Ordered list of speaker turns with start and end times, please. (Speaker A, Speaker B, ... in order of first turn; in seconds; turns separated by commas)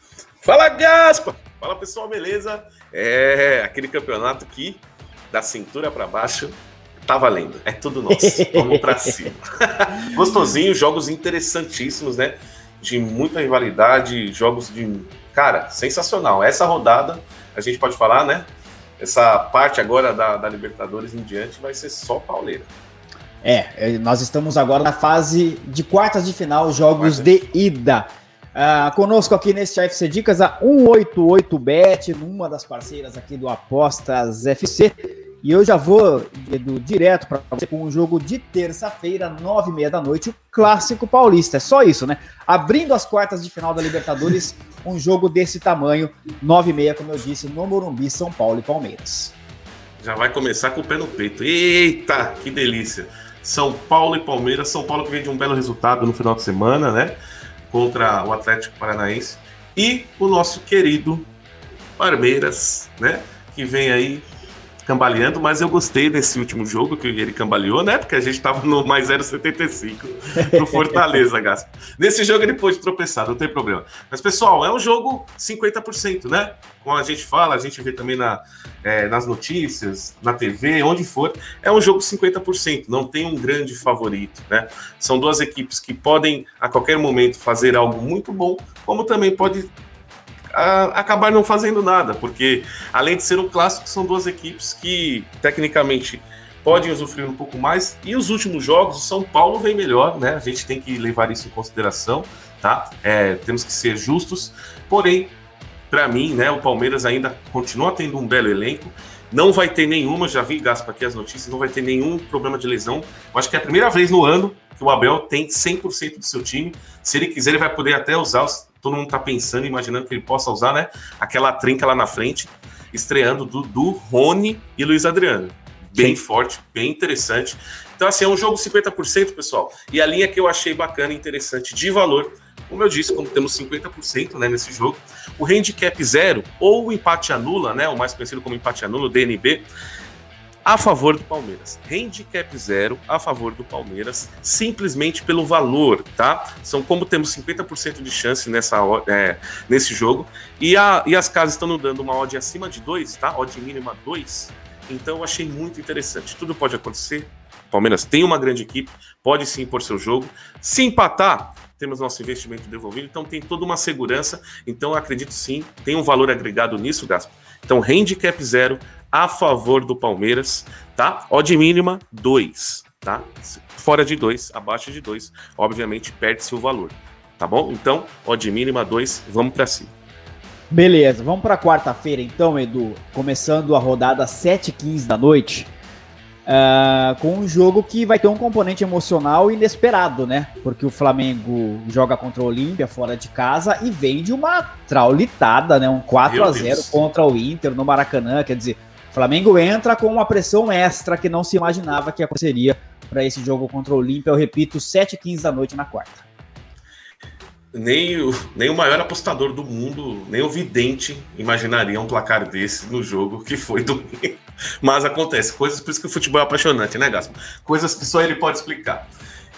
Speaker A: 0.4-18.5, Speaker B: 8.1-9.3, Speaker A: 19.0-22.7, Speaker B: 23.4-49.3, Speaker A: 27.0-27.4, Speaker A: 50.0-57.2, Speaker A: 57.7-61.3, Speaker A: 62.0-64.2, Speaker A: 64.8-89.7, Speaker B: 70.5-71.0, Speaker A: 90.5-105.3, Speaker A: 105.9-139.7, Speaker A: 140.7-179.9, Speaker B: 180.7-185.7, Speaker B: 186.4-206.3, Speaker A: 196.2-197.0, Speaker A: 207.7-219.1